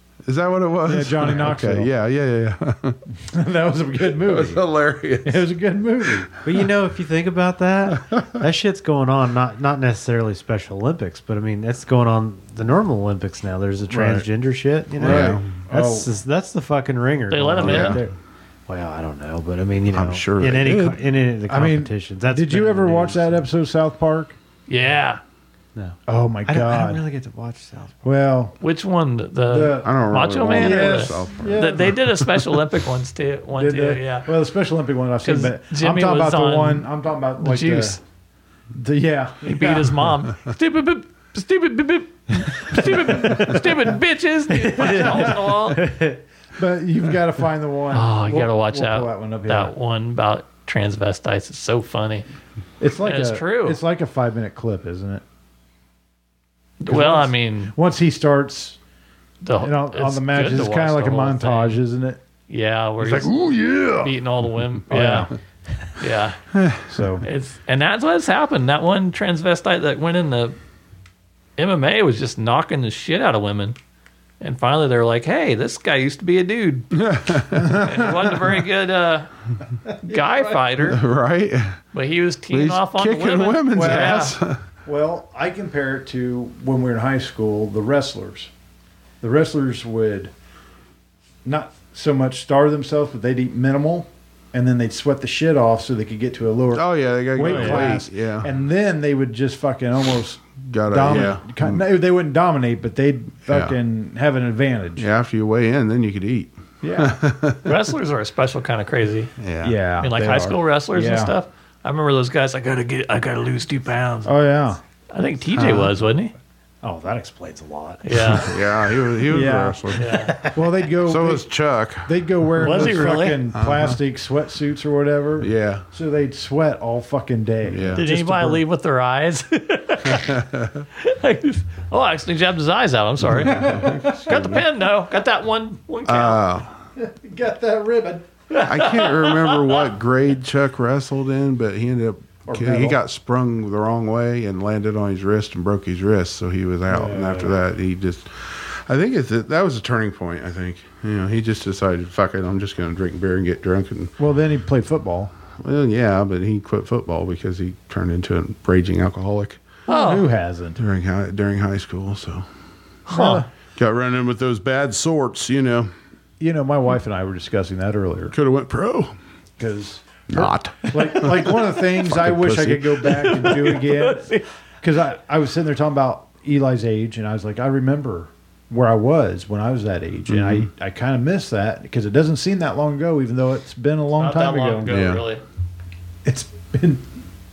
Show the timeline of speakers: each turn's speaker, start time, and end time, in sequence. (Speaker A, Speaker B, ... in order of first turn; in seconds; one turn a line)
Speaker A: 0.2-3.0
Speaker B: 0.8-1.9
Speaker B: 3.1-4.6
Speaker A: 4.0-5.5
Speaker B: 5.2-6.3
Speaker A: 6.2-6.6
Speaker C: 6.4-18.1
Speaker A: 8.0-8.4
Speaker B: 13.9-14.3
Speaker A: 15.0-15.6
Speaker B: 15.0-16.1
Speaker D: 17.3-18.0
Speaker A: 17.6-18.0
Speaker C: 18.7-23.5
Speaker A: 19.9-21.1
Speaker B: 21.5-24.4
Speaker D: 24.7-25.2
Speaker C: 25.7-28.0
Speaker B: 26.1-27.0
Speaker B: 28.0-28.6
Speaker D: 28.6-34.3
Speaker B: 29.5-31.9
Speaker A: 29.8-32.6
Speaker B: 33.5-38.0
Speaker D: 35.2-38.0
Speaker B: 38.7-40.1
Speaker D: 39.4-45.9
Speaker B: 42.7-43.7
Speaker C: 44.5-46.2
Speaker B: 44.9-45.5
Speaker B: 46.6-49.7
Speaker D: 47.9-52.2
Speaker B: 52.8-55.2
Speaker D: 53.0-53.8
Speaker D: 56.8-57.7
Speaker B: 56.9-58.8
Speaker D: 59.4-61.8
Speaker B: 59.6-62.2
Speaker D: 62.5-65.3
Speaker A: 63.0-64.1
Speaker B: 64.9-65.3
Speaker D: 66.0-66.4
Speaker A: 66.5-66.8
Speaker B: 66.8-67.2
Speaker D: 67.2-70.5
Speaker D: 71.6-73.8
Speaker D: 74.4-77.0
Speaker A: 76.9-78.2
Speaker B: 77.6-77.9
Speaker D: 77.7-79.3
Speaker B: 80.0-80.7
Speaker D: 80.0-81.0
Speaker A: 80.8-81.8
Speaker D: 81.9-84.3
Speaker A: 82.5-84.6
Speaker B: 83.7-84.3
Speaker B: 84.8-88.5
Speaker B: 89.2-90.3
Speaker B: 91.4-105.1
Speaker A: 96.7-98.5
Speaker D: 97.4-97.9
Speaker A: 100.6-101.8
Speaker A: 103.5-103.8
Speaker A: 105.0-107.9
Speaker B: 106.8-107.2
Speaker D: 107.6-109.3
Speaker A: 109.4-109.8
Speaker B: 109.6-111.3
Speaker D: 110.0-114.3
Speaker B: 114.2-114.8
Speaker D: 115.1-116.3
Speaker A: 115.5-115.9
Speaker C: 116.8-118.6
Speaker D: 118.0-118.5
Speaker A: 118.3-120.3
Speaker B: 119.2-120.0
Speaker D: 120.0-120.3
Speaker C: 120.0-120.8
Speaker B: 120.5-121.5
Speaker A: 121.0-124.0
Speaker B: 122.0-128.6
Speaker D: 122.6-123.4
Speaker A: 125.4-125.8
Speaker A: 127.6-128.1
Speaker D: 128.0-130.4
Speaker A: 130.0-130.8
Speaker D: 131.0-136.4
Speaker A: 133.2-134.6
Speaker B: 133.4-134.6
Speaker A: 136.0-136.8
Speaker B: 136.9-138.3
Speaker D: 138.5-139.8
Speaker A: 138.6-154.1
Speaker B: 142.5-143.0
Speaker B: 146.9-147.6
Speaker B: 154.2-155.3
Speaker A: 155.6-159.6
Speaker D: 159.9-160.2
Speaker B: 159.9-160.8
Speaker A: 160.8-162.4
Speaker D: 163.1-163.4
Speaker B: 163.1-163.5
Speaker A: 163.8-165.9
Speaker B: 166.4-168.3
Speaker A: 168.3-169.1
Speaker B: 169.6-184.9
Speaker A: 170.3-173.3
Speaker D: 173.2-174.4
Speaker A: 180.3-180.7
Speaker D: 184.2-185.4
Speaker A: 184.8-185.2
Speaker B: 186.2-187.0